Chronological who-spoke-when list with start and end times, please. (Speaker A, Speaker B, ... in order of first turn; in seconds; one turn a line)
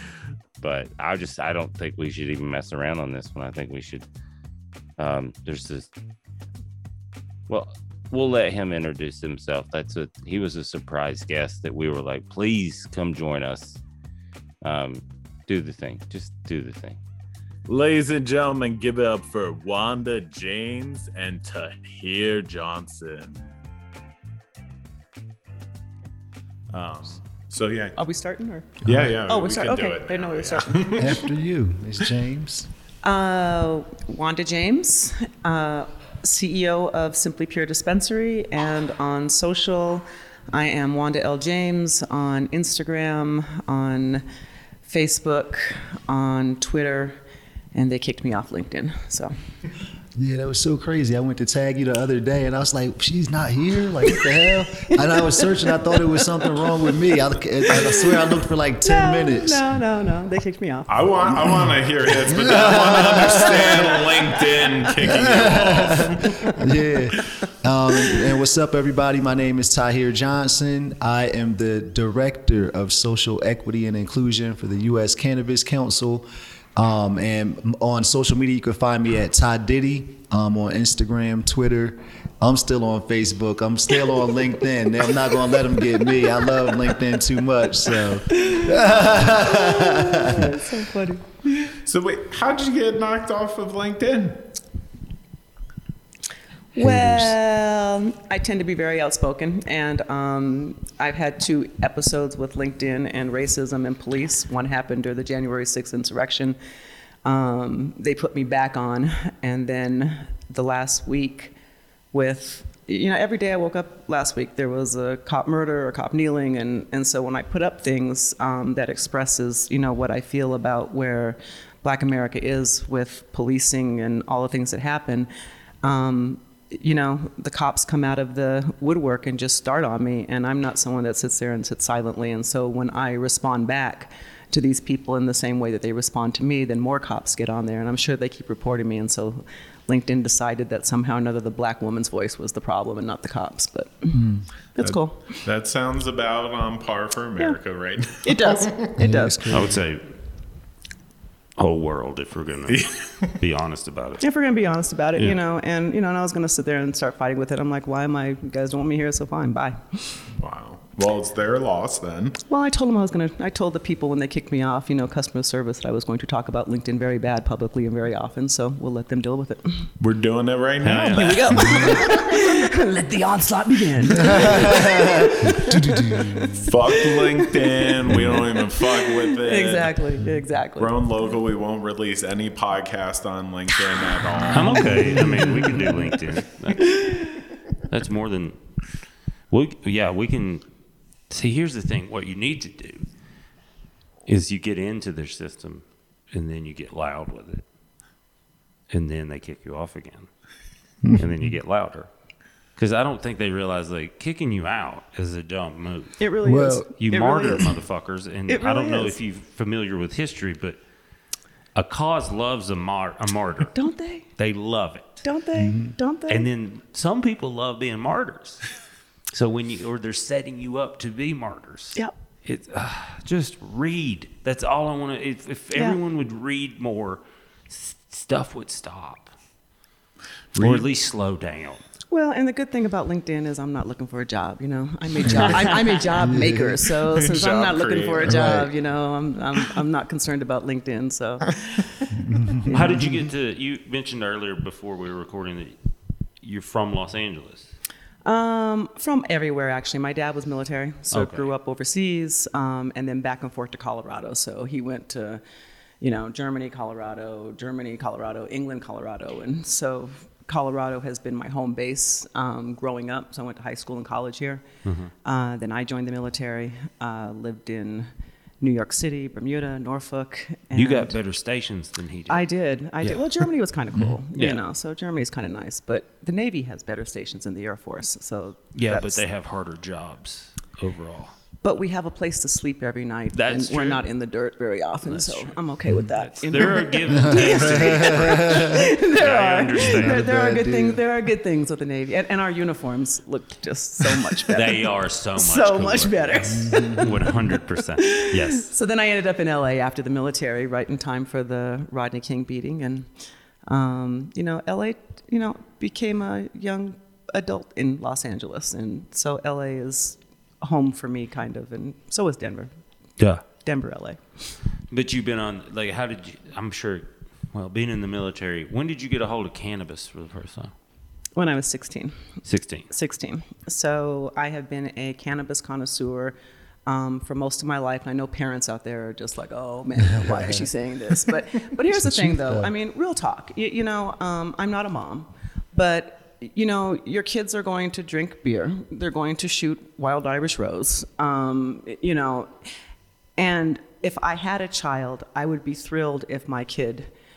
Speaker A: 0.6-4.0
Speaker A: 5.0-5.9
Speaker A: 7.5-13.8
Speaker A: 14.6-17.0
Speaker B: 17.7-23.4
Speaker B: 26.7-28.0
Speaker C: 28.0-30.9
Speaker B: 28.8-31.3
Speaker D: 28.8-29.1
Speaker D: 31.0-32.7
Speaker C: 33.0-44.2
Speaker C: 44.8-47.2
Speaker C: 47.7-49.3
Speaker D: 50.2-59.6
Speaker C: 54.8-56.6
Speaker C: 57.7-58.2
Speaker C: 58.8-60.9
Speaker B: 60.9-66.5
Speaker D: 62.2-64.0
Speaker C: 62.4-65.1
Speaker D: 65.0-90.6
Speaker C: 66.2-66.6
Speaker C: 86.0-86.5
Speaker C: 88.3-91.2
Speaker B: 91.6-94.5
Speaker C: 96.8-106.6
Speaker D: 96.8-97.4
Speaker C: 107.2-111.5
Speaker C: 112.1-125.3
Speaker C: 125.8-144.2
Speaker D: 144.1-144.4
Speaker C: 144.8-145.2
Speaker B: 144.8-148.9
Speaker C: 148.2-149.6
Speaker D: 149.0-149.8
Speaker E: 149.5-150.1
Speaker E: 151.6-154.2
Speaker B: 152.7-153.3
Speaker C: 154.2-160.2
Speaker B: 160.3-162.4
Speaker C: 162.5-169.9
Speaker B: 170.0-172.0
Speaker E: 170.8-171.9
Speaker C: 171.1-181.0
Speaker D: 174.3-176.7
Speaker B: 176.6-180.0
Speaker B: 180.8-186.1
Speaker E: 184.4-187.2
Speaker C: 185.1-185.6
Speaker C: 186.8-187.4
Speaker E: 187.8-188.6
Speaker E: 189.5-190.6
Speaker E: 191.3-193.1
Speaker E: 194.2-197.6
Speaker E: 198.9-200.3
Speaker D: 201.0-201.6
Speaker E: 201.1-202.1
Speaker E: 202.8-206.2
Speaker C: 206.2-207.7
Speaker D: 206.4-206.9
Speaker E: 207.0-210.8
Speaker C: 208.5-209.2
Speaker E: 211.8-213.8
Speaker C: 213.8-214.3
Speaker E: 214.4-215.2
Speaker C: 215.2-216.5
Speaker D: 215.6-215.9
Speaker E: 216.3-218.7
Speaker E: 219.3-229.3
Speaker C: 225.7-226.0
Speaker B: 230.6-230.9
Speaker E: 230.6-231.8
Speaker C: 232.1-241.8
Speaker E: 235.3-235.9
Speaker D: 236.2-236.8
Speaker B: 237.0-238.4
Speaker D: 238.2-238.7
Speaker D: 242.1-243.2
Speaker E: 242.7-245.8
Speaker E: 246.4-247.7
Speaker C: 248.2-255.4
Speaker E: 251.1-251.5
Speaker C: 256.0-264.6
Speaker E: 264.9-265.1
Speaker C: 265.2-268.1
Speaker C: 268.6-271.2
Speaker E: 270.8-272.4
Speaker C: 272.3-279.2
Speaker E: 273.0-273.4
Speaker E: 274.0-274.6
Speaker E: 278.8-281.3
Speaker C: 281.6-303.1
Speaker E: 283.3-284.0
Speaker E: 285.1-285.6
Speaker E: 286.1-290.2
Speaker D: 287.1-288.7
Speaker D: 289.9-291.0
Speaker E: 294.5-298.7
Speaker D: 296.5-297.4
Speaker C: 303.7-312.7
Speaker E: 313.2-313.4
Speaker C: 313.6-314.2
Speaker E: 314.9-320.7
Speaker C: 321.4-322.2
Speaker E: 322.4-322.9
Speaker C: 322.9-326.4
Speaker C: 326.9-342.7
Speaker D: 330.1-330.6
Speaker D: 331.9-332.7
Speaker C: 343.4-347.1